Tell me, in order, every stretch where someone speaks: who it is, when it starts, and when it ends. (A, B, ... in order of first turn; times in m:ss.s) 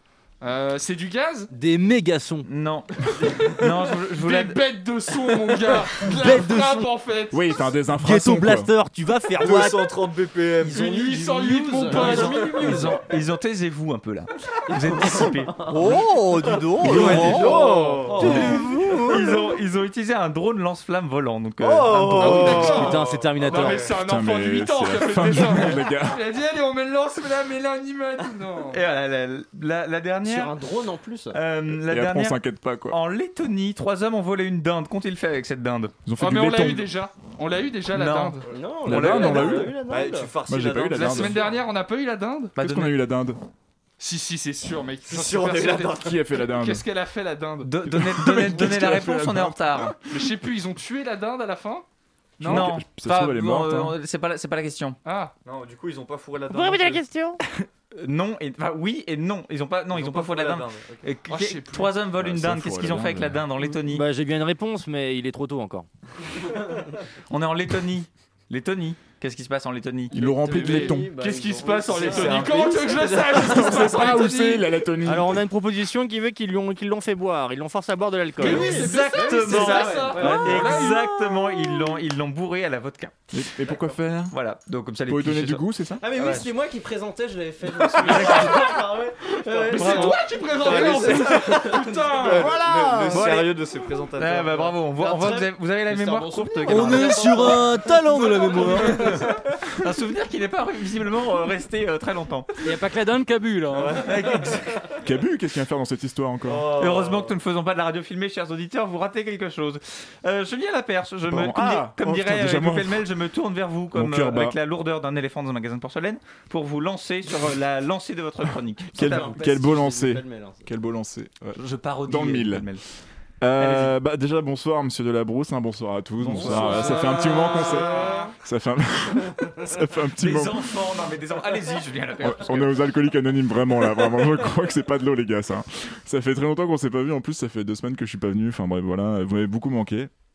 0:00.4-0:01.5 A
0:01.5-0:02.5 B
0:02.4-0:04.6 C
0:03.9-0:07.7 A
0:06.0-0:06.9 B
0:07.3-0:08.7 D
0:08.0-0:10.0 B
0:09.3-0:11.0 E
0:10.6-0:13.0 F
0:10.7-0:12.8 A
0:11.9-0:15.7 C
0:15.1-0:15.8 F
0:15.7-0:19.1 B
0:16.4-0:19.1 E
0:16.9-0:17.5 C
0:16.9-0:19.1 F
0:18.1-0:22.7 C
0:21.6-0:24.0 E
0:22.1-0:28.8 A
0:22.6-0:23.7 B
0:24.0-0:26.2 D
0:28.7-0:30.5 C
0:30.2-0:31.4 F
0:31.3-0:35.9 C
0:31.7-0:33.0 D
0:36.0-0:36.9 D
0:36.2-0:38.5 A
0:37.9-0:39.6 C
0:38.5-0:40.3 F
0:38.8-0:39.8 D
0:39.1-0:41.6 E
0:40.5-0:41.4 D
0:40.9-0:42.5 A
0:42.6-0:43.0 C
0:42.6-0:43.4 D
0:44.0-0:47.7 A
0:45.0-0:46.2 E
0:46.0-0:46.8 D
0:47.6-0:49.9 C
0:47.9-0:50.3 D
0:50.1-0:51.8 A
0:52.4-0:52.7 A
0:52.4-0:54.0 D
0:52.4-0:55.0 C
0:55.0-0:55.3 A
0:55.4-0:57.1 E
0:56.5-0:57.3 B
0:57.6-1:04.0 C
0:59.9-1:01.0 E
1:01.3-1:01.9 A
1:02.2-1:03.5 D
1:03.7-1:05.8 B
1:07.3-1:10.2 C
1:10.1-1:11.1 D
1:10.2-1:13.4 F
1:10.4-1:14.7 A
1:11.9-1:13.2 E
1:13.3-1:15.4 D
1:15.1-1:18.6 B
1:18.4-1:21.2 A
1:18.4-1:20.6 F
1:18.4-1:23.3 C
1:23.3-1:24.3 D
1:24.3-1:26.5 C
1:25.1-1:26.0 D
1:26.0-1:32.4 F
1:28.0-1:28.6 E
1:28.0-1:28.7 C
1:29.4-1:34.8 E
1:29.7-1:32.5 A
1:29.8-1:30.1 C
1:32.6-1:33.2 B
1:33.1-1:33.6 C
1:34.2-1:37.6 C
1:35.0-1:37.8 F
1:36.7-1:39.0 B
1:37.9-1:39.1 E
1:38.5-1:42.5 C
1:43.7-1:44.6 E
1:43.9-1:44.8 C
1:45.0-1:46.7 D
1:46.4-1:47.4 E
1:46.8-1:59.4 C
1:51.3-1:53.0 D
1:53.9-1:54.6 D
1:58.9-2:02.7 D
1:58.9-2:00.7 F
2:01.6-2:02.8 C
2:03.4-2:10.7 D
2:03.6-2:04.0 C
2:06.2-2:08.2 C
2:06.3-2:08.2 F
2:07.6-2:08.1 E
2:10.2-2:12.8 C
2:12.2-2:20.1 D